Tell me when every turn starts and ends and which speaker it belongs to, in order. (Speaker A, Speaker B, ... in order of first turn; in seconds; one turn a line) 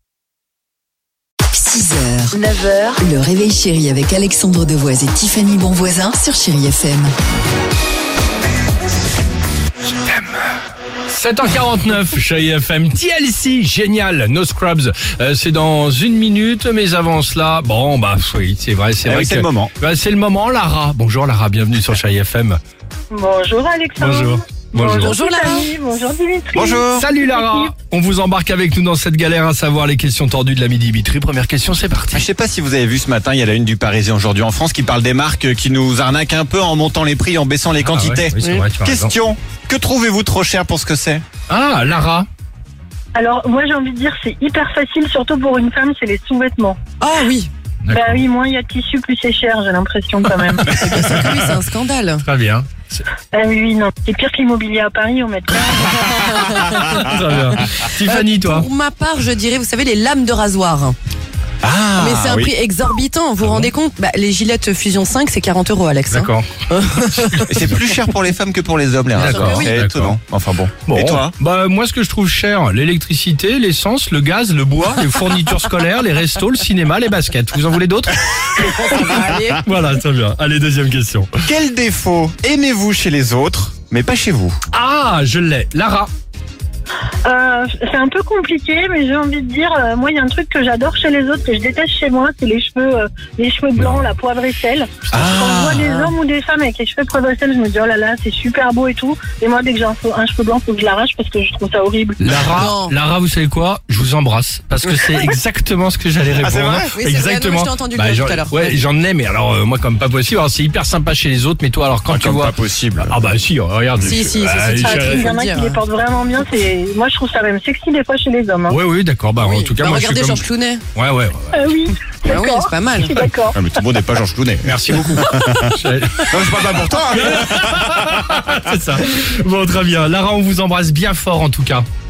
Speaker A: 1.5-2.4
Speaker B: 2.3-3.0
Speaker A: 3.0-7.1
Speaker C: 11.1-22.6
Speaker D: 19.0-19.7
Speaker B: 23.1-27.7
Speaker C: 24.0-25.2
Speaker E: 25.0-25.7
Speaker D: 26.5-27.1
Speaker C: 26.9-32.3
Speaker D: 32.1-41.2
Speaker C: 37.8-39.1
Speaker C: 41.5-42.3
Speaker B: 43.1-46.8
Speaker E: 47.0-47.5
Speaker C: 47.9-48.2
Speaker B: 47.9-50.6
Speaker C: 50.2-51.4
Speaker E: 50.7-52.2
Speaker C: 52.2-53.0
Speaker B: 53.3-56.1
Speaker C: 56.5-58.7
Speaker E: 58.0-61.0
Speaker D: 61.6-62.5
Speaker E: 62.0-67.4
Speaker C: 63.4-63.7
Speaker C: 66.1-66.5
Speaker C: 67.1-67.8
Speaker D: 67.5-71.3
Speaker C: 69.1-70.2
Speaker E: 69.2-69.7
Speaker C: 70.8-78.9
Speaker E: 78.6-79.6
Speaker C: 79.6-81.3
Speaker D: 81.4-84.6
Speaker C: 84.7-86.1
Speaker B: 87.2-102.2
Speaker C: 93.8-94.0
Speaker D: 95.1-95.8
Speaker E: 95.8-96.1
Speaker C: 102.2-115.4
Speaker E: 102.5-102.9
Speaker D: 106.4-106.9
Speaker E: 106.9-108.8
Speaker D: 112.1-113.2
Speaker E: 114.0-115.8
Speaker B: 114.8-118.8
Speaker C: 118.7-121.5
Speaker E: 119.4-120.8
Speaker B: 121.5-123.6
Speaker E: 122.2-123.2
Speaker D: 123.5-128.1
Speaker C: 124.6-131.8